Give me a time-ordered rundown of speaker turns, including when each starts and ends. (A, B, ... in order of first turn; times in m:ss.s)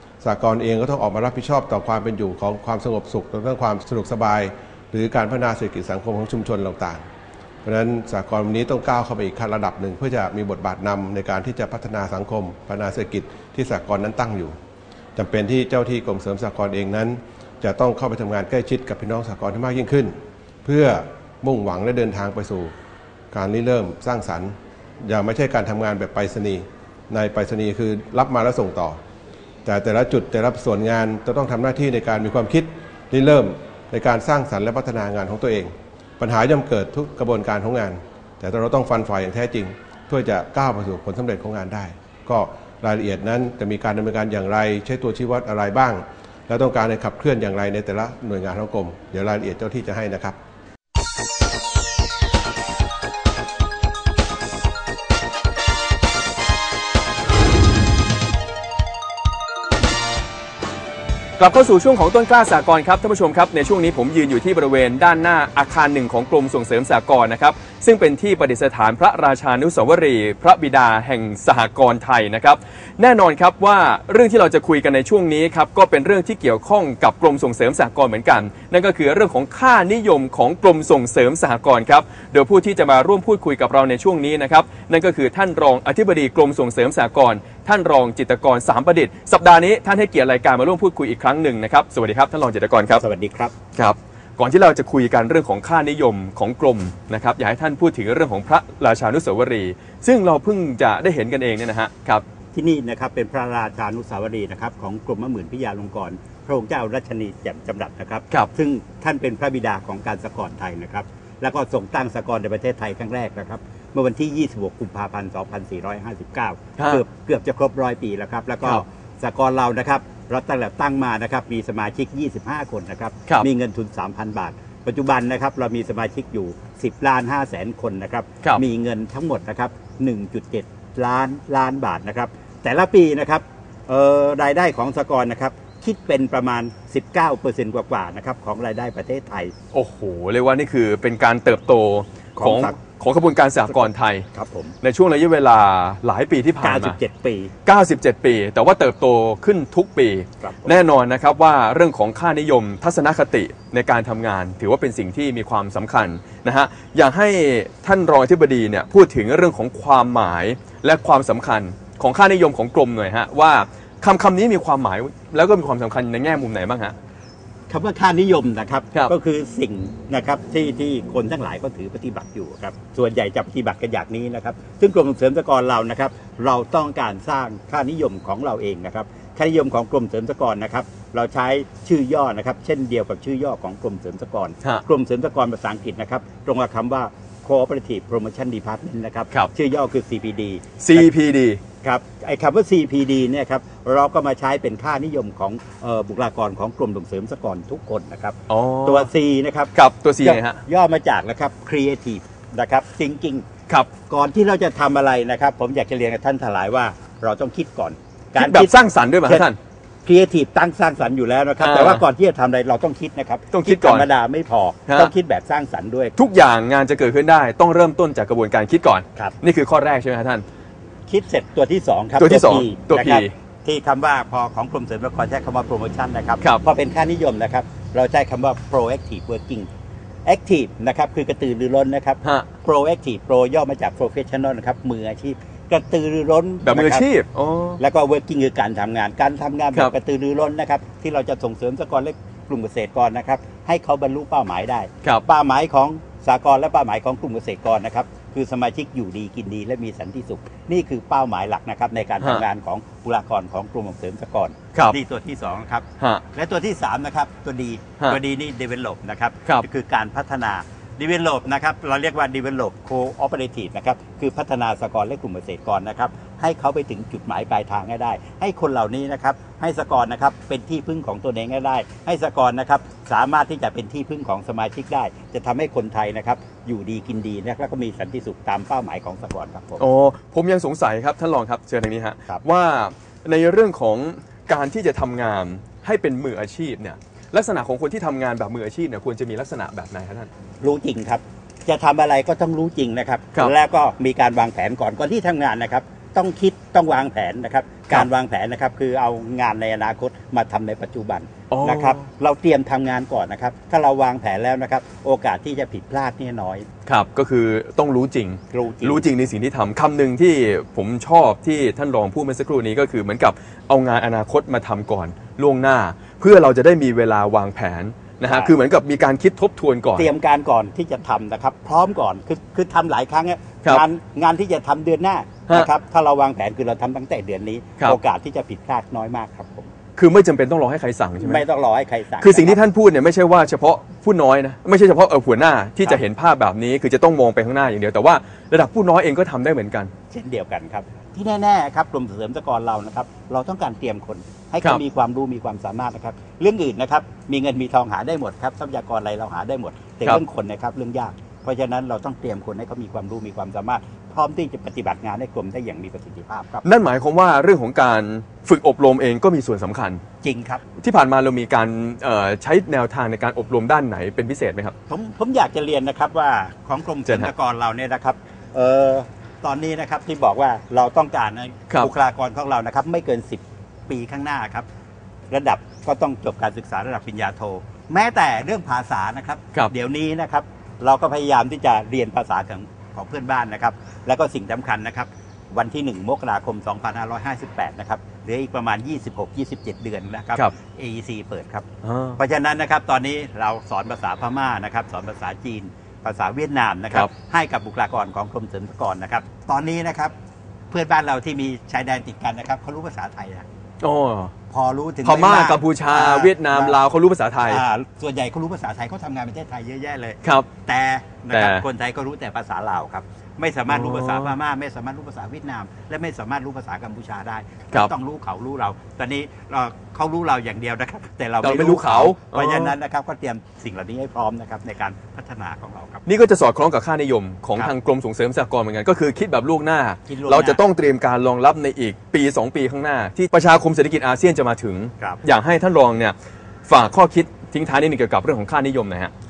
0:00.2-0:07.0 A
0:07.6-0:14.6 A
0:15.1-0:22.7 A
0:23.3-0:29.0 A
0:29.6-0:50.4 A
1:01.4-1:33.0 B
1:33.0-1:33.5 C
1:33.8-1:42.2 B
1:42.5-2:19.5 C
2:19.7-2:24.3 B
2:22.4-2:22.8 C
2:23.7-2:24.7 C
2:24.8-2:27.0 B
2:26.6-2:27.5 C
2:27.6-2:46.9 B
2:30.4-2:30.7 C
2:47.7-3:11.1 C
3:10.8-3:11.6 B
3:11.8-3:19.7 C
3:18.5-3:19.1 B
3:19.7-3:20.6 B
3:20.2-3:23.4 C
3:24.1-3:28.7 C
3:28.4-3:29.6 B
3:30.0-3:36.1 C
3:31.6-3:32.0 B
3:33.5-3:34.1 B
3:36.2-3:40.4 B
3:41.1-3:49.7 C
3:42.2-3:43.3 B
3:50.2-3:57.0 C
3:56.6-3:57.8 B
3:57.8-4:39.8 C
4:39.8-4:50.3 B
4:50.6-5:06.7 C
5:01.5-5:02.0 B
5:06.8-5:20.1 B
5:08.5-5:09.0 C
5:18.2-5:18.5 C
5:20.0-5:29.7 C
5:30.0-5:31.4 B
5:31.2-5:32.6 C
5:32.2-5:39.9 B
5:40.1-5:56.6 C
5:56.6-6:00.0 B
6:00.2-6:00.6 C
6:00.8-6:04.7 B
6:04.9-6:14.6 C
6:07.0-6:07.3 B
6:15.3-6:40.1 C
6:31.8-6:32.2 B
6:40.7-6:43.5 C
6:43.8-6:44.3 B
6:44.5-6:46.8 C
6:45.0-6:47.6 B
6:47.4-7:06.0 C
6:51.3-6:51.6 B
6:53.7-6:54.3 B
7:01.4-7:02.7 B
7:06.0-7:16.1 B
7:10.1-7:10.6 C
7:16.7-7:19.1 B